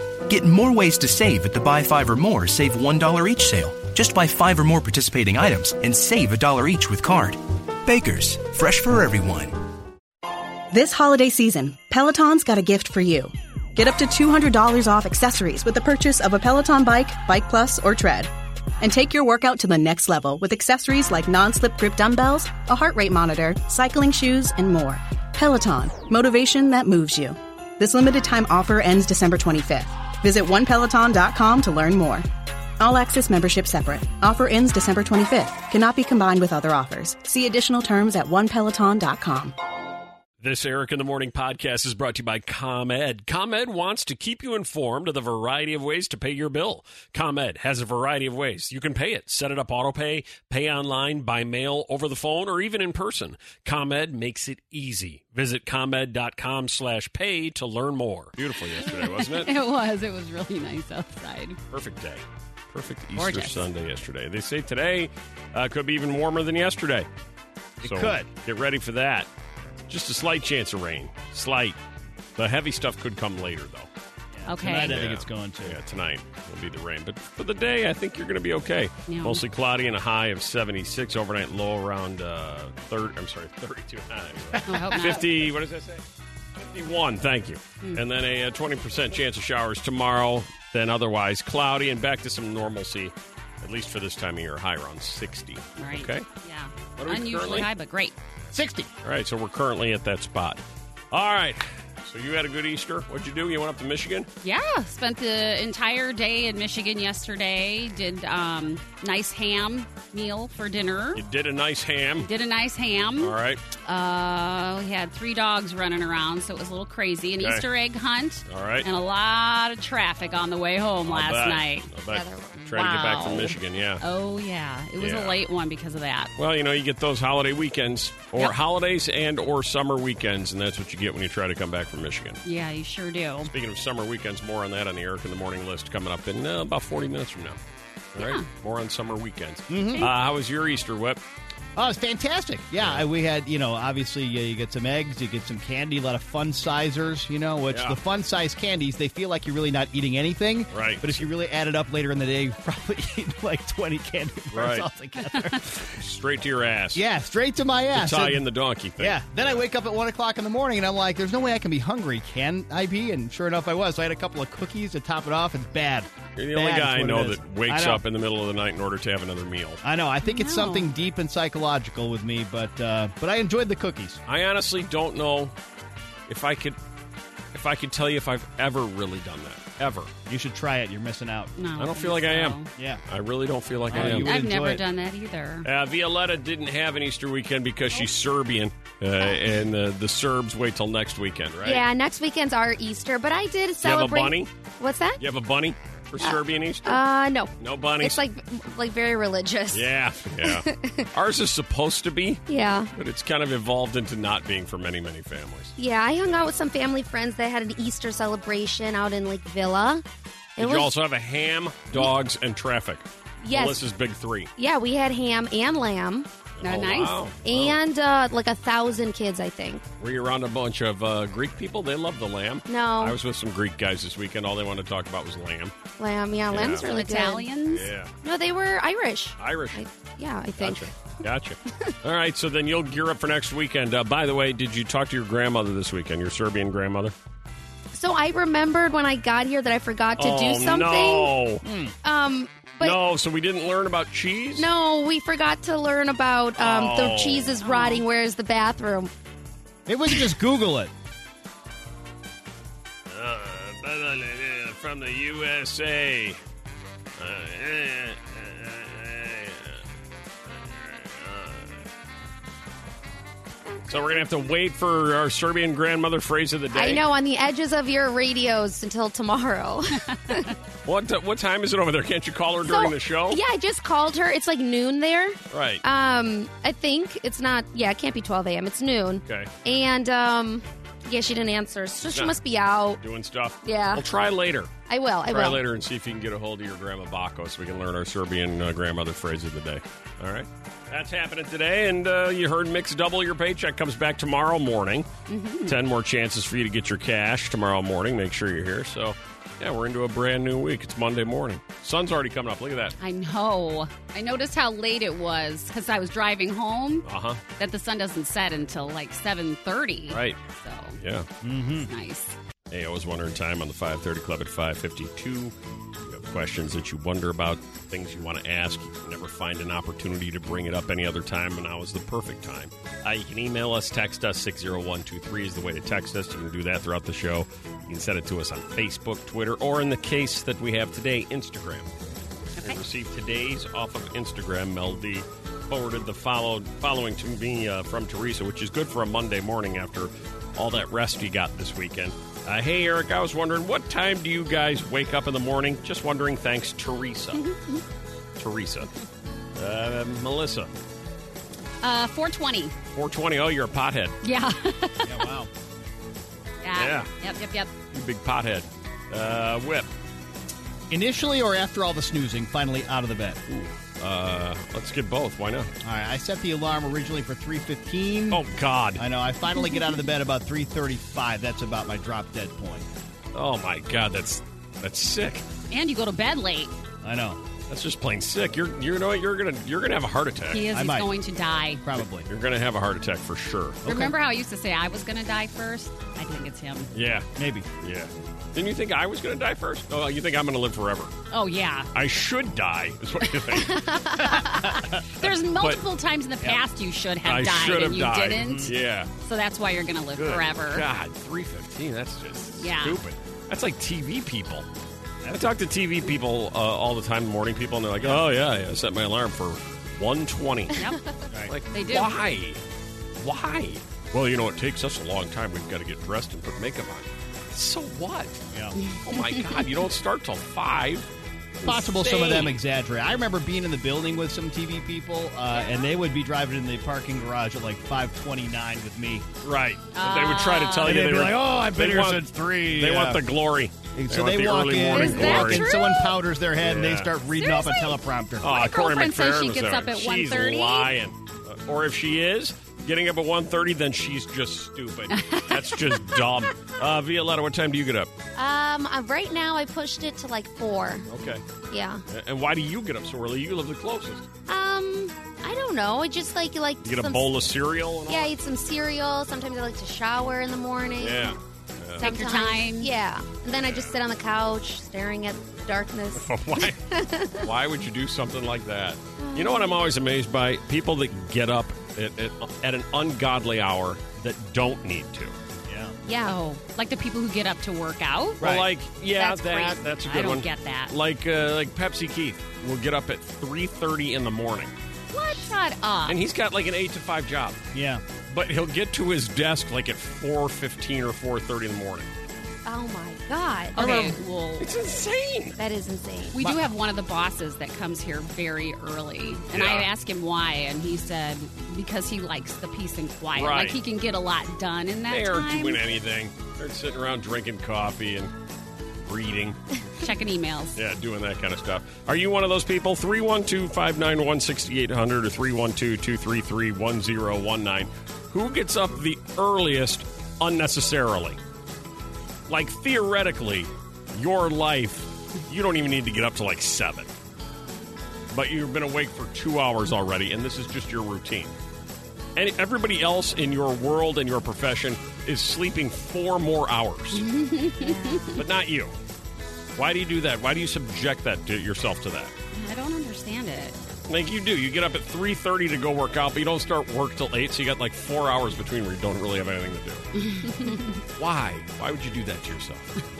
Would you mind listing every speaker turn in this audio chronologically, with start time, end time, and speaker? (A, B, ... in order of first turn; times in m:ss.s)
0:00.3-0:09.5 A
0:10.7-0:32.3 B
0:32.8-0:39.5 B
0:40.4-0:59.5 C
0:58.8-1:01.6 D
1:01.7-1:07.1 C
1:03.2-1:03.7 D
1:07.8-1:08.3 E
1:07.8-1:09.3 C
1:09.9-1:11.8 C
1:12.4-1:13.9 C
1:14.3-1:15.8 E
1:14.5-1:15.0 D
1:14.7-1:26.0 C
1:19.1-1:19.4 D
1:24.6-1:25.2 D
1:24.7-1:25.1 E
1:26.6-1:36.2 C
1:35.8-1:38.1 D
1:37.0-1:37.7 C
1:38.5-1:38.9 E
1:39.0-1:44.3 C
1:44.4-1:51.2 D
1:51.2-1:52.3 C
1:52.2-1:53.3 D
1:53.2-1:53.6 C
1:53.8-2:01.9 D
1:58.5-1:58.8 C
2:01.0-2:04.0 C
2:02.1-2:02.8 F
2:02.7-2:06.3 D
2:05.0-2:05.4 C
2:06.4-2:12.4 C
2:12.4-2:13.5 D
2:13.4-2:17.6 C
2:18.1-2:21.2 C
2:18.2-2:18.5 D
2:19.7-2:20.1 E
2:19.8-2:20.1 D
2:21.8-2:35.9 E
2:22.8-2:23.0 C
2:27.7-2:28.0 C
2:30.7-2:31.1 C
2:34.5-2:34.9 C
2:35.8-2:37.0 C
2:36.9-2:38.4 E
2:37.9-2:39.6 C
2:39.0-2:48.0 E
2:46.4-2:49.8 C
2:49.8-2:54.2 E
2:50.2-2:50.9 D
2:54.2-2:55.5 C
2:56.3-2:56.8 C
2:57.5-3:00.1 C
3:00.2-3:01.5 E
3:01.6-3:02.7 D
3:01.8-3:04.3 C
3:02.8-3:03.0 E
3:03.9-3:04.8 E
3:03.9-3:05.7 D
3:05.6-3:11.8 C
3:11.6-3:15.2 F
3:13.8-3:14.5 C
3:15.2-3:17.0 C
3:16.2-3:19.9 F
3:17.6-3:18.2 C
3:19.7-3:22.4 C
3:20.4-3:21.1 F
3:22.5-3:22.9 F
3:22.9-3:25.7 C
3:25.8-3:30.0 F
3:30.6-3:30.9 F
3:30.6-3:34.5 C
3:33.4-3:33.8 F
3:34.6-3:36.3 F
3:36.6-3:37.8 C
3:36.6-3:37.2 D
3:37.4-3:39.8 F
3:40.0-3:45.7 C
3:42.7-3:43.2 F
3:46.0-3:47.5 F
3:46.5-3:46.9 C
3:46.8-3:47.9 D
3:47.7-3:48.1 C
3:48.2-3:50.9 F
3:49.4-3:49.8 C
3:50.5-3:57.1 C
3:57.9-4:01.3 F
4:00.2-4:01.6 C
4:01.6-4:01.9 E
4:02.0-4:03.0 F
4:02.8-4:04.7 C
4:04.6-4:09.1 F
4:06.6-4:07.6 C
4:07.6-4:08.0 D
4:09.9-4:10.9 E
4:13.1-4:16.4 C
4:17.2-4:19.8 C
4:20.6-4:21.8 C
4:23.6-4:24.2 F
4:23.9-4:27.0 C
4:26.7-4:30.5 F
4:30.1-4:30.5 D
4:30.8-4:33.4 C
4:32.6-4:43.0 F
4:35.5-4:35.8 C
4:42.1-4:42.4 C
4:43.0-4:44.7 C
4:43.6-4:44.0 F
4:44.9-4:45.6 F
4:45.3-4:55.1 C
4:55.3-4:55.8 D
4:55.6-5:02.9 C
5:03.0-5:07.0 D
5:07.0-5:07.4 C
5:07.6-5:11.0 D
5:10.1-5:10.4 C
5:11.0-5:11.3 C
5:11.4-5:11.9 E
5:11.7-5:12.4 D
5:12.7-5:31.9 C
5:32.6-5:47.4 C
5:48.4-5:48.9 C
5:49.6-5:50.7 C
5:51.8-5:52.7 D
5:52.9-5:54.2 C
5:54.2-5:55.2 D
5:55.0-5:55.5 E
5:56.6-5:57.7 D
5:56.8-5:57.1 C
5:57.9-5:59.9 C
6:00.9-6:03.4 E
6:03.5-6:05.7 C
6:05.8-6:08.4 E
6:08.3-6:09.0 C
6:09.0-6:12.8 E
6:13.3-6:15.4 C
6:15.7-6:16.7 D
6:17.0-6:17.4 E
6:17.7-6:20.7 C
6:20.5-6:21.8 D
6:20.7-6:21.1 E
6:21.8-6:22.3 E
6:22.2-6:23.8 C
6:23.8-6:24.1 E
6:23.8-6:26.9 D
6:26.9-6:27.3 C
6:27.4-6:27.6 E
6:27.8-6:31.1 C
6:31.3-6:31.9 D
6:31.9-6:33.8 C
6:33.5-6:40.8 D
6:34.4-6:34.8 E
6:35.2-6:35.8 C
6:37.2-6:39.1 C
6:38.4-6:38.7 E
6:40.2-6:44.6 C
6:42.6-6:43.0 D
6:45.2-6:50.8 C
6:50.8-6:51.2 F
6:51.5-6:52.6 C
6:51.7-6:52.1 D
6:53.2-6:58.4 C
6:59.0-7:01.1 C
7:01.6-7:02.6 C
7:01.6-7:09.3 E
7:09.4-7:15.7 C
7:09.9-7:11.0 D
7:10.8-7:13.2 E
7:13.9-7:18.5 E
7:14.9-7:16.2 D
7:16.6-7:17.1 C
7:17.4-7:20.9 D
7:18.4-7:28.1 C
7:25.1-7:25.9 D
7:28.3-7:31.0 F
7:31.1-7:31.4 C
7:31.7-7:32.0 F
7:32.1-7:34.2 C
7:34.5-7:37.2 F
7:36.8-7:38.3 C
7:38.1-7:41.4 F
7:41.0-7:42.1 C
7:42.0-7:42.9 D
7:42.0-7:47.5 F
7:43.6-7:43.9 C
7:46.1-7:46.8 C
7:47.4-7:55.3 C
7:49.2-7:49.8 F
7:55.7-7:56.0 E
7:56.0-7:56.4 F
7:56.2-7:58.5 D
7:58.4-7:58.7 E
7:58.4-8:04.7 C
7:59.2-8:00.9 D
7:59.2-7:59.6 F
8:05.1-8:06.2 D
8:06.0-8:07.6 C
8:07.7-8:08.0 E
8:08.3-8:12.1 C
8:12.6-8:14.0 F
8:13.7-8:14.7 D
8:13.8-8:14.2 E
8:14.6-8:15.6 C
8:15.6-8:16.4 F
8:16.3-8:25.8 D
8:16.4-8:16.7 E
8:19.5-8:19.9 C
8:23.3-8:23.8 C
8:25.1-8:28.3 C
8:29.0-8:29.6 C
8:30.0-8:30.8 D
8:30.8-8:41.4 C
8:42.5-8:47.1 C
8:48.3-8:51.5 C
8:52.4-8:57.2 C
8:57.1-8:58.4 D
8:58.3-8:58.9 C
8:59.8-9:02.3 C
9:02.5-9:03.8 D
9:04.1-9:10.0 C
9:10.2-9:11.0 D
9:11.2-9:12.9 C